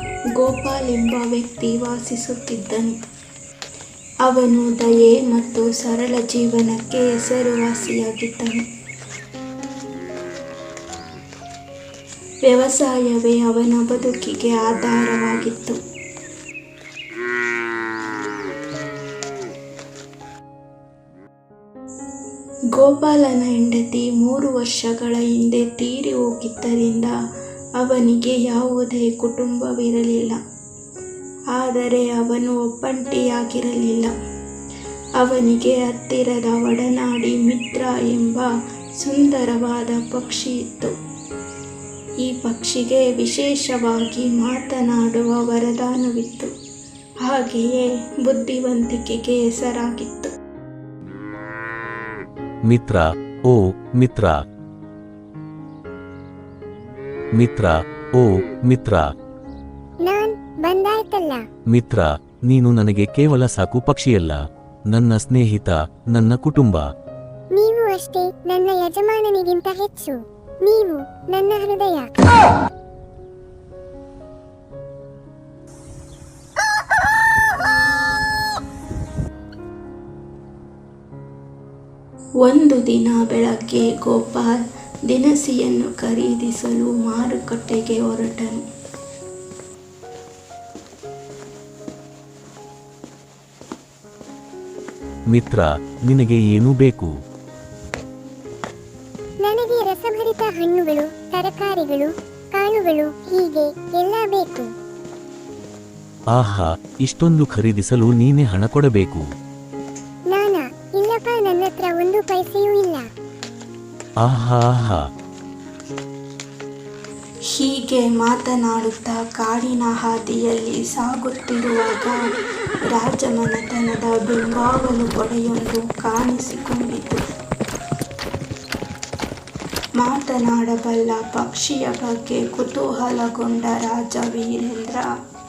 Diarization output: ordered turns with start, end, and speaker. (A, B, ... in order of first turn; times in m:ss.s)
0:00.3-0:02.9 A
0:04.2-0:08.6 A
0:12.4-0:15.8 A
0:22.7-0:27.1 A
0:27.8-0:30.4 A
0:31.5-0:34.1 A
0:35.2-0:38.5 A
0:39.0-0:40.9 A
0:42.2-0:46.5 A
0:47.2-0:50.3 A
0:52.6-0:54.4 B
0:57.4-0:59.0 B
1:00.0-1:01.4 C
1:01.7-1:06.8 B
1:07.5-1:12.1 C
1:22.4-1:28.6 A
1:35.3-1:37.1 B
1:39.4-1:44.7 C
1:46.3-1:49.2 B
1:50.3-1:53.0 C
1:54.2-1:55.0 B
1:57.5-2:02.2 A
2:02.9-2:07.2 A
2:10.0-2:15.1 A